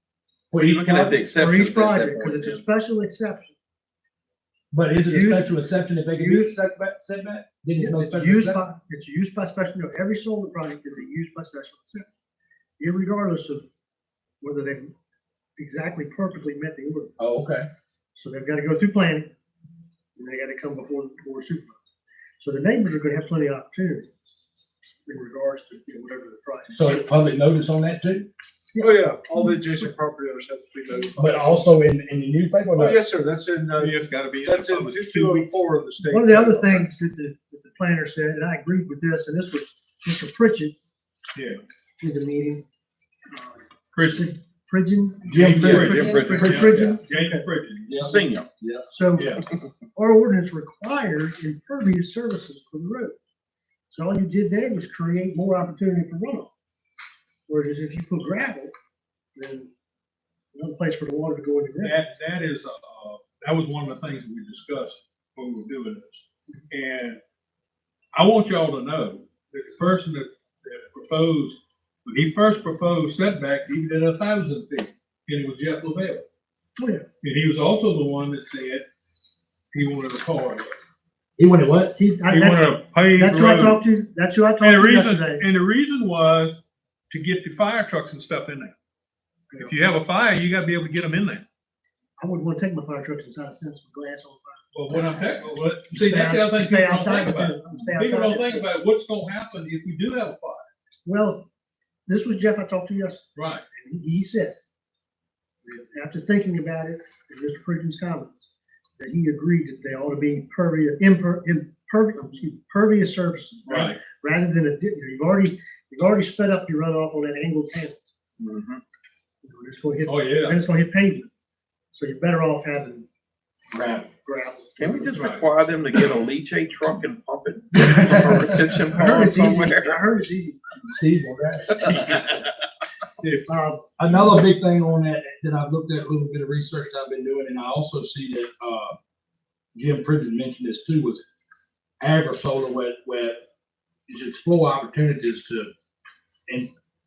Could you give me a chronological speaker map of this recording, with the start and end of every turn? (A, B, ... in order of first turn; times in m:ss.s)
0:00.5-0:01.2 A
0:00.6-0:02.6 B
0:01.3-0:03.5 C
0:04.7-0:08.6 A
0:05.1-0:05.6 C
0:06.1-0:06.6 C
0:07.8-0:12.1 C
0:12.8-0:13.6 C
0:14.4-0:14.9 C
0:15.6-0:17.1 C
0:17.2-0:17.7 A
0:18.1-0:19.3 C
0:20.2-0:21.8 C
0:22.4-0:24.1 C
0:25.0-0:26.8 C
0:26.7-0:28.3 A
0:28.8-0:29.5 C
0:28.8-0:31.7 D
0:31.2-0:33.0 A
0:32.7-0:36.9 D
0:33.8-0:35.5 E
0:36.1-0:40.7 C
0:41.3-0:41.6 E
0:42.0-0:42.6 C
0:43.3-0:43.6 C
0:43.9-0:44.3 E
0:44.1-0:47.4 C
0:45.2-0:45.9 A
0:45.3-0:48.1 E
0:45.6-0:46.7 B
0:47.9-0:48.8 A
0:48.0-0:48.5 B
0:48.9-0:49.4 C
0:49.1-0:49.4 E
0:49.9-0:53.1 C
0:53.9-0:56.5 C
0:57.5-0:58.7 C
0:59.4-0:59.7 C
1:00.5-1:02.0 C
1:01.8-1:07.2 E
1:08.1-1:16.2 E
1:16.8-1:17.0 C
1:17.2-1:18.8 E
1:19.7-1:20.8 E
1:21.4-1:22.0 A
1:22.0-1:25.4 C
1:22.2-1:23.8 E
1:24.6-1:26.6 E
1:27.1-1:28.7 E
1:29.6-1:31.4 E
1:32.2-1:35.3 C
1:34.7-1:40.6 E
1:35.9-1:38.7 C
1:41.0-1:41.4 C
1:42.0-1:44.5 C
1:43.4-1:43.6 E
1:45.6-1:58.0 C
1:53.7-1:54.0 E
1:58.4-1:58.8 B
1:59.4-2:01.3 C
2:00.0-2:00.6 E
2:01.9-2:03.0 C
2:03.7-2:04.1 A
2:04.2-2:05.1 C
2:04.8-2:10.0 B
2:05.1-2:05.5 E
2:07.8-2:08.4 A
2:08.9-2:10.6 C
2:10.9-2:12.1 A
2:13.2-2:13.5 E
2:13.5-2:14.1 C
2:14.0-2:19.0 A
2:19.7-2:21.2 A
2:22.0-2:23.4 A
2:24.1-2:25.7 A